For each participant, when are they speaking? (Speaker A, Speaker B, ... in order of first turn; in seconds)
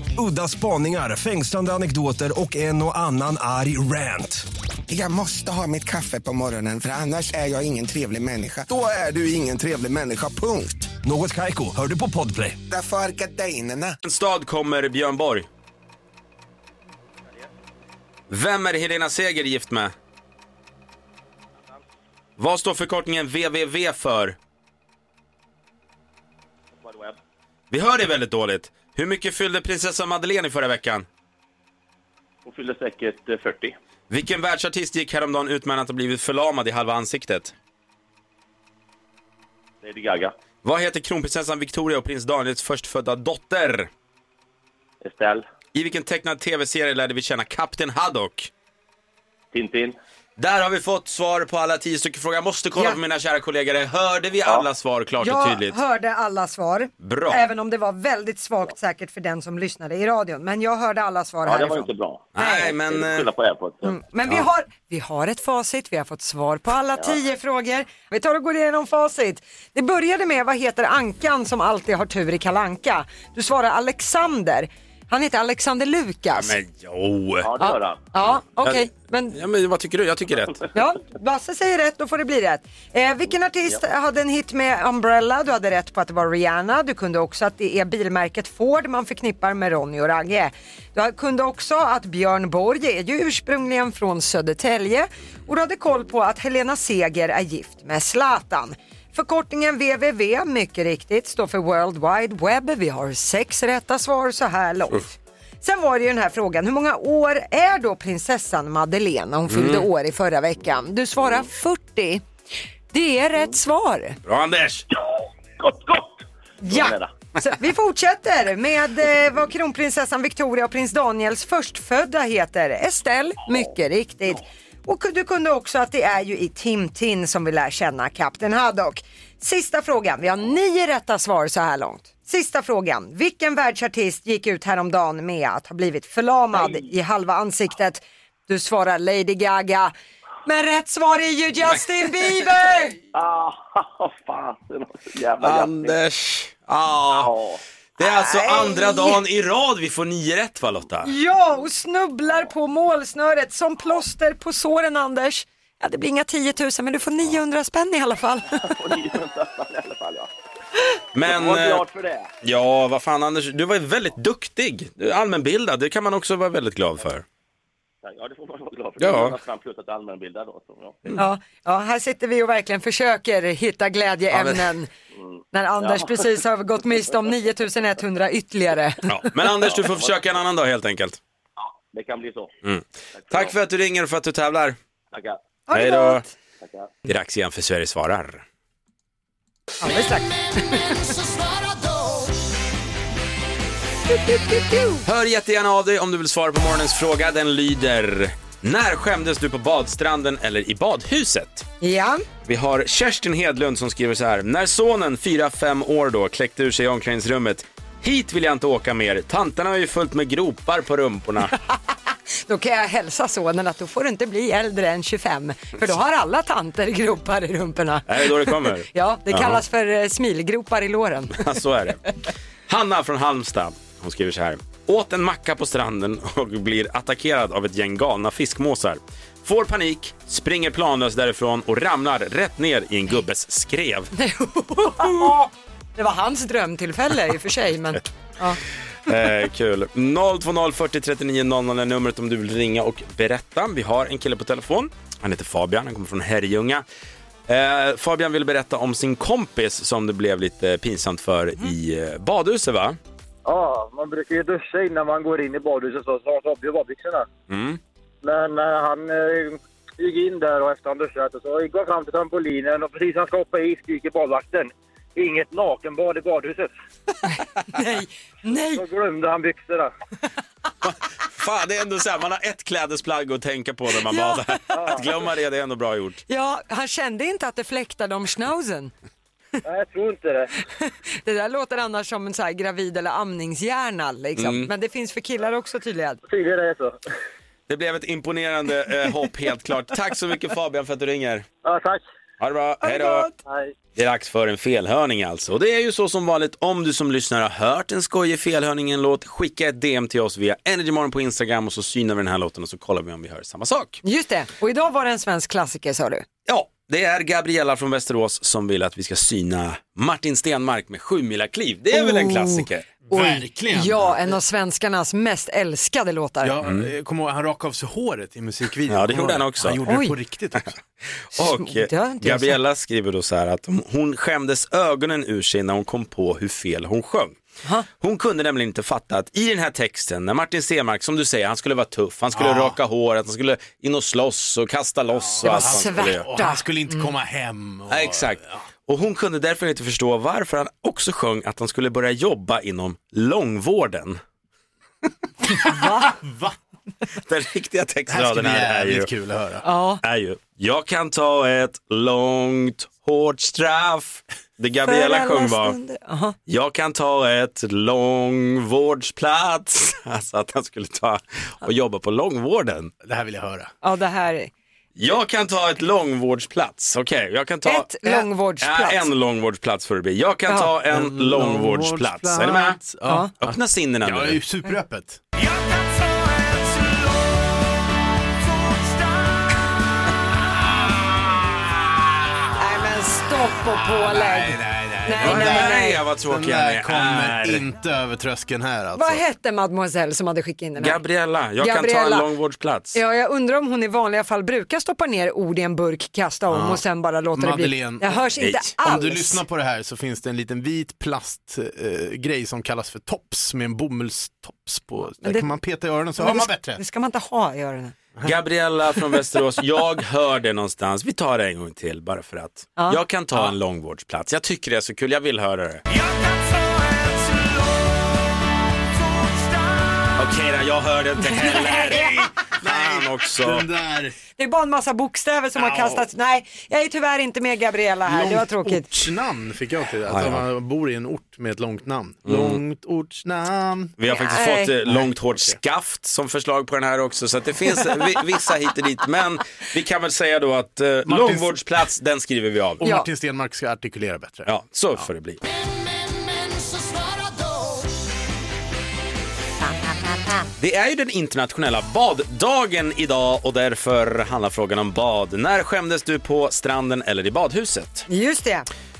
Speaker A: 0.2-4.5, 11.0-12.6
Speaker B: 4.9-10.9, 12.7-13.9
Speaker C: 14.0-15.5, 18.3-19.9, 22.4-24.4, 27.7-31.1, 34.1-37.5, 40.6-43.9, 45.7-48.5, 50.4-55.8, 57.0-57.4, 62.3-63.3, 76.3-77.5, 78.2-80.7, 109.5-109.9, 114.2-114.8, 145.4-147.3, 148.0-151.1, 161.1-161.8, 162.4-167.2, 169.0-169.4, 174.3-174.7, 179.1-181.2, 182.6-184.8, 185.7-186.2, 187.1-188.4, 195.0-201.7, 202.4-211.5, 218.1-219.6, 221.4-222.1, 222.7-234.1, 239.1-246.8, 247.5-253.0, 257.5-257.8, 270.8-276.2, 284.4-284.7, 287.7-291.4, 292.4-293.3, 293.9-304.0, 306.5-312.9, 316.6-316.9, 318.9-319.8, 320.6-327.4, 328.0-336.2, 337.9-344.2, 347.2-349.1, 350.0-355.8, 356.5-362.9, 364.9-372.8, 373.4-374.4, 385.2-387.6, 390.8-393.0, 408.2-415.8, 420.1-423.7, 430.1-430.4, 432.2-432.6, 434.0-442.8, 444.4-445.4, 450.6-458.1
Speaker D: 26.7-27.2, 32.4-33.7, 39.8-40.3, 45.0-45.5, 49.5-50.0, 61.4-63.9, 77.4-78.0, 115.6-117.1, 143.1-146.0, 147.1-147.6, 158.6-160.3, 161.2-162.3, 168.0-171.1, 175.8-176.2, 179.7-180.2, 181.6-182.5, 183.2-183.5, 185.1-185.4, 186.6-186.9
Speaker E: 55.2-62.7, 63.8-76.5, 77.6-79.3, 80.7-112.2, 112.9-114.2, 116.6-139.9, 140.4-143.0, 148.0-149.2, 151.0-158.8, 171.2-174.9, 175.5-179.3, 185.7-186.3, 189.8-191.1, 194.1-195.0, 201.8-202.2, 212.4-221.4, 234.2-238.6, 267.7-268.8, 274.1-274.6, 276.3-278.9, 280.8-286.2, 292.8-293.4, 304.0-306.2, 311.9-316.6, 319.9-320.2, 321.4-322.6, 335.4-337.1, 345.6-346.1, 349.6-350.0, 354.8-356.4, 363.8-364.5, 367.6-369.1, 373.0-373.3, 382.5-386.0, 388.9-391.0, 391.6-392.3, 392.9-399.4, 405.2-405.6, 406.2-407.9, 421.2-422.2, 424.4-428.9, 434.1-434.7, 442.8-443.1, 449.6-450.5, 458.1-458.7
Speaker F: 253.4-257.3, 258.2-266.7, 268.7-269.9, 274.7-275.1, 279.6-280.5, 286.3-287.0, 291.6-292.0, 293.4-293.7
Speaker G: 313.0-314.3, 316.4-320.7, 332.3-332.8, 335.1-338.6, 345.6-346.5, 348.1-349.6, 363.0-363.7, 370.9-375.2, 383.9-389.2, 396.5-396.8, 397.4-406.8, 422.6-424.1, 425.6-426.0, 428.1-434.0, 434.9-435.6, 441.1-441.6, 442.8-445.1